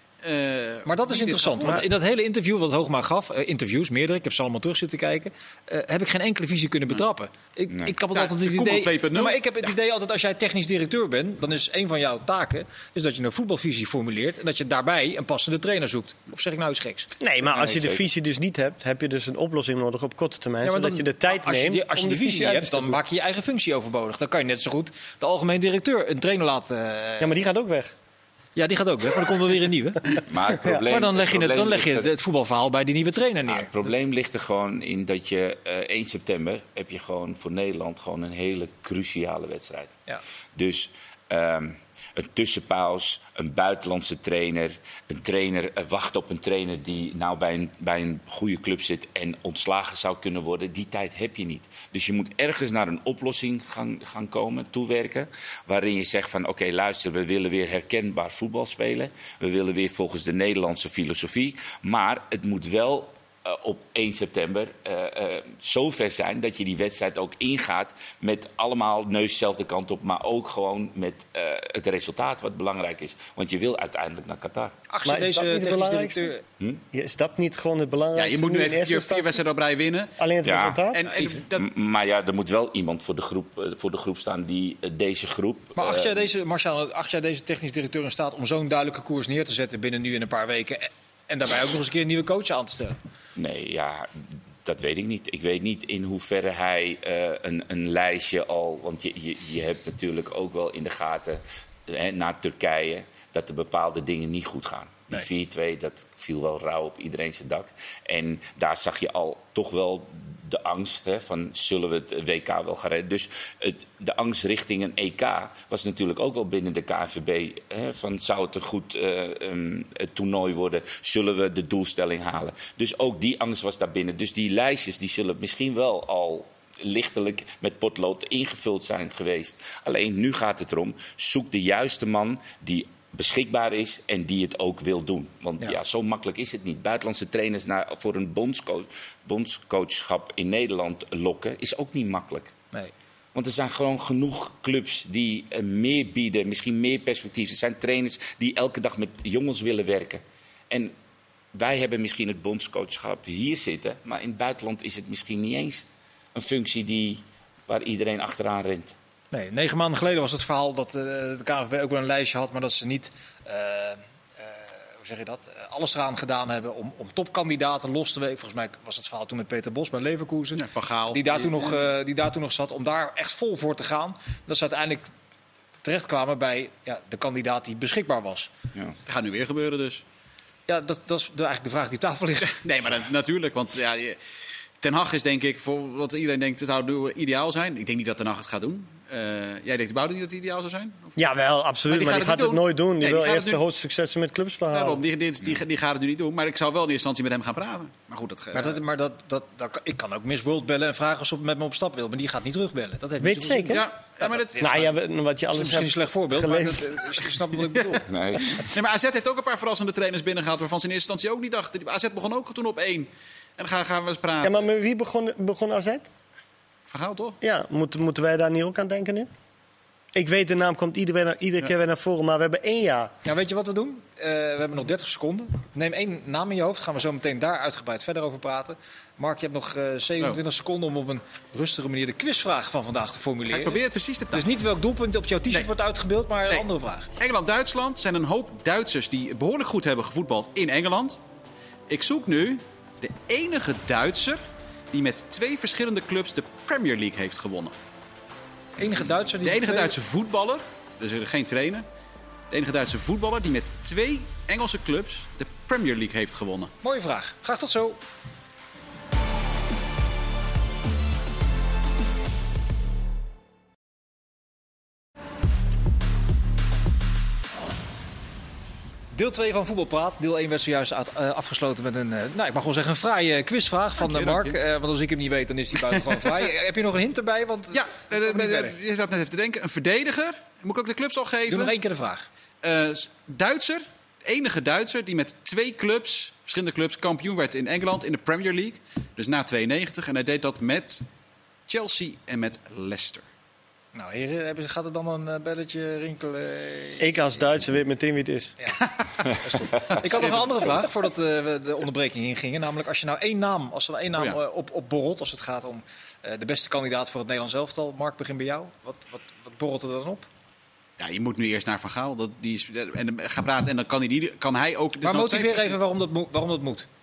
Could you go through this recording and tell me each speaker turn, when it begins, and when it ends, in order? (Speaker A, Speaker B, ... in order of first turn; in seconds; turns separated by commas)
Speaker A: 0.2-1.9, Speaker B: 0.8-17.1, Speaker C: 7.7-8.0, Speaker A: 8.1-9.4, Speaker D: 17.2-23.0, Speaker C: 17.4-18.0, Speaker B: 20.6-27.4, Speaker D: 27.2-27.9, Speaker B: 28.6-33.7, Speaker C: 30.2-32.1, Speaker C: 33.5-40.0, Speaker C: 40.5-74.7, Speaker B: 74.9-76.4, Speaker D: 75.0-76.3, Speaker D: 76.9-79.4, Speaker A: 78.1-80.1, Speaker D: 80.2-81.0, Speaker C: 80.4-80.8, Speaker A: 80.9-81.7, Speaker C: 81.5-86.3, Speaker B: 85.8-93.0, Speaker C: 93.3-142.5, Speaker C: 143.3-150.9, Speaker C: 151.5-158.9, Speaker B: 159.3-175.1, Speaker A: 170.6-171.7, Speaker B: 175.8-178.5, Speaker A: 179.1-180.0, Speaker B: 180.7-182.6, Speaker A: 182.5-184.2, Speaker A: 184.8-191.2, Speaker D: 191.2-195.0, Speaker A: 191.9-193.6, Speaker A: 194.7-198.8, Speaker B: 198.5-204.9, Speaker D: 203.2-203.8, Speaker A: 203.7-204.6, Speaker D: 204.6-207.3, Speaker B: 205.5-208.1, Speaker A: 207.7-208.0, Speaker C: 208.1-208.7, Speaker A: 208.6-214.6, Speaker D: 214.4-216.1, Speaker A: 216.9-217.4, Speaker D: 217.4-219.3, Speaker D: 220.1-223.1, Speaker B: 223.2-233.8, Speaker A: 233.5-234.5, Speaker B: 234.3-237.1, Speaker A: 237.2-241.2, Speaker A: 241.9-244.4, Speaker A: 244.9-247.7, Speaker B: 248.8-249.9, Speaker A: 249.4-251.8, Speaker A: 252.5-256.7, Speaker B: 256.8-258.0, Speaker B: 269.1-278.7, Speaker A: 274.0-274.6, Speaker A: 276.1-276.4, Speaker A: 277.7-281.7, Speaker B: 281.5-282.3, Speaker A: 282.6-291.0, Speaker A: 291.7-293.2, Speaker B: 293.9-297.1, Speaker D: 297.0-298.5, Speaker B: 298.6-310.3, Speaker A: 298.8-299.3, Speaker A: 299.9-300.4, Speaker A: 311.0-315.8, Speaker B: 315.0-316.9